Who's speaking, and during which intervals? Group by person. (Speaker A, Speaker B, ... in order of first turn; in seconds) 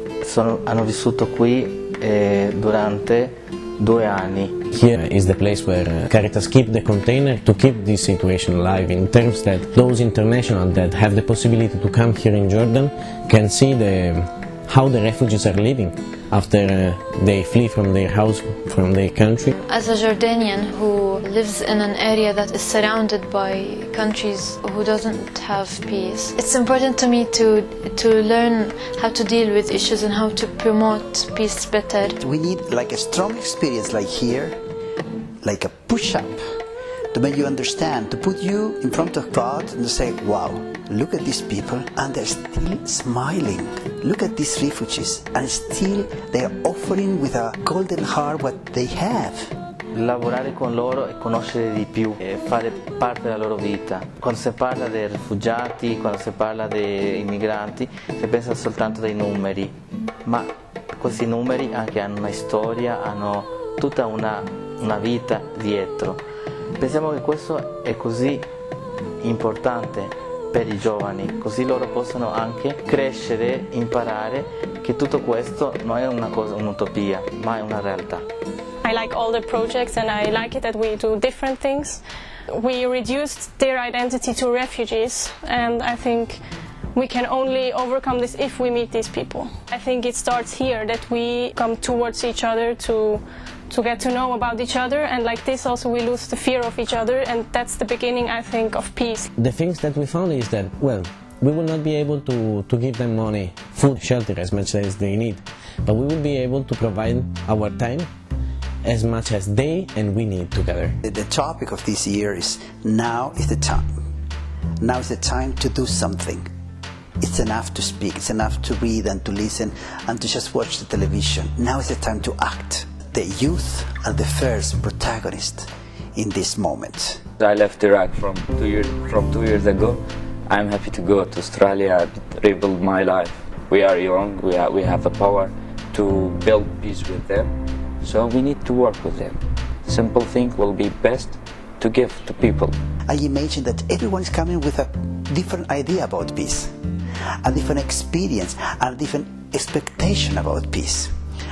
Speaker A: 0.2-4.5, 49.9-66.2, 66.8-68.5, 69.2-78.2
Speaker B: 4.7-19.6, 99.4-108.1, 108.8-111.0
Speaker C: 19.6-32.1
Speaker D: 32.2-34.6, 35.4-36.4, 37.1-49.5, 111.0-113.9, 114.8-116.4, 117.2-127.2, 143.1-146.7, 147.4-151.1
Speaker E: 78.8-82.0, 82.5-86.4, 86.9-99.3
Speaker F: 127.4-142.7